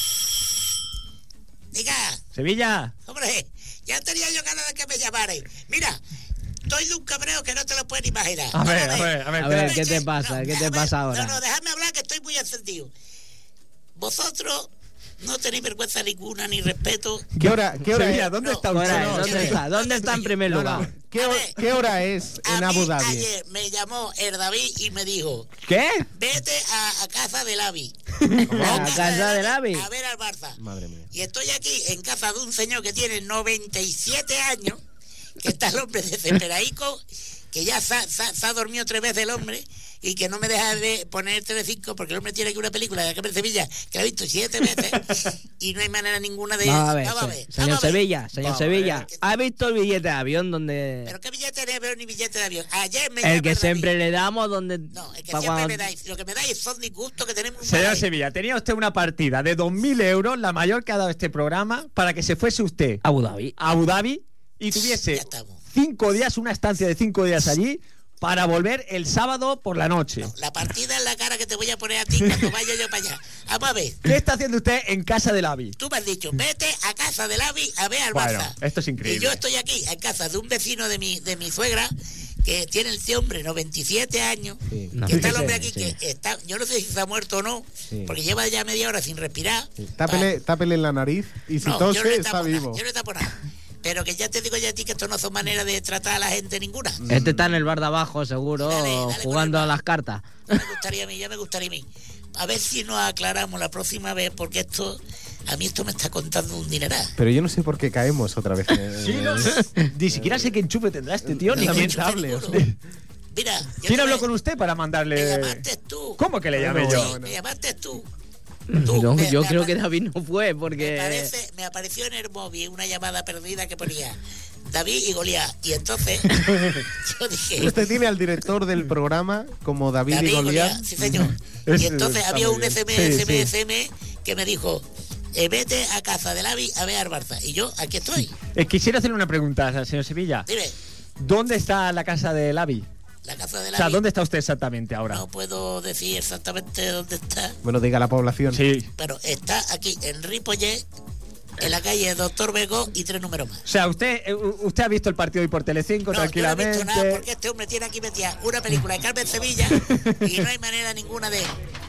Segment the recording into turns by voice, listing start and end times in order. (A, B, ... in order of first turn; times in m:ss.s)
0:01.7-0:02.2 A
0:02.3-0:02.9 B
0:03.1-0:06.0 A
0:06.6-0:12.9 A
0:08.5-0:09.8 B
0:09.4-0:11.4 C
0:14.0-0:17.3 A
0:17.4-0:19.5 D
0:17.4-0:19.6 B
0:18.4-0:20.4 A
0:18.7-0:20.9 C
0:20.4-0:23.3 D
0:21.2-0:21.6 A
0:22.4-0:25.5 A
0:25.6-0:26.0 B
0:26.1-0:27.9 A
0:28.2-0:28.6 B
0:28.5-0:30.6 A
0:28.5-0:29.9 C
0:28.5-0:29.0 D
0:30.6-0:31.1 D
0:31.1-0:34.8 A
0:35.4-0:48.1 A
0:46.6-0:51.1 C
0:48.4-0:49.0 B
0:51.0-0:53.9 A
0:53.2-0:55.8 C
0:54.9-0:58.0 A
0:57.6-1:03.0 B
1:03.0-1:03.6 C
1:03.6-1:10.3 B
1:04.7-1:05.6 A
1:10.2-1:14.1 A
1:14.0-1:15.8 B
1:15.8-1:21.9 A
1:18.1-1:19.4 B
1:22.4-1:30.3 A
1:24.7-1:25.0 D
1:24.9-1:26.0 C
1:25.1-1:25.6 B
1:27.9-1:28.2 D
1:29.8-1:32.8 D
1:31.6-1:37.0 A
1:37.0-1:37.6 D
1:37.1-1:40.6 C
1:38.6-1:39.8 A
1:40.5-1:47.1 A
1:47.2-1:50.5 D
1:49.0-1:52.7 B
1:51.2-1:52.6 D
1:51.5-1:52.6 A
1:53.3-1:54.2 A
1:53.8-1:55.6 B
1:55.1-1:58.1 A
1:56.2-1:57.2 B
1:56.5-1:57.4 D
1:58.7-2:01.3 C
1:58.8-1:59.8 A
2:00.7-2:07.8 A
2:07.6-2:10.9 D
2:10.1-2:18.4 A
2:11.0-2:13.5 B
2:18.5-2:20.5 B
2:20.5-2:20.7 A
2:21.2-2:22.9 B
2:23.2-2:24.0 A
2:23.7-2:25.2 B
2:25.1-2:27.6 A
2:27.6-2:28.6 D
2:28.5-2:28.9 B
2:29.0-2:30.8 A
2:31.6-2:33.6 A
2:33.6-2:37.2 B
2:36.1-2:41.5 A
2:39.8-2:40.4 B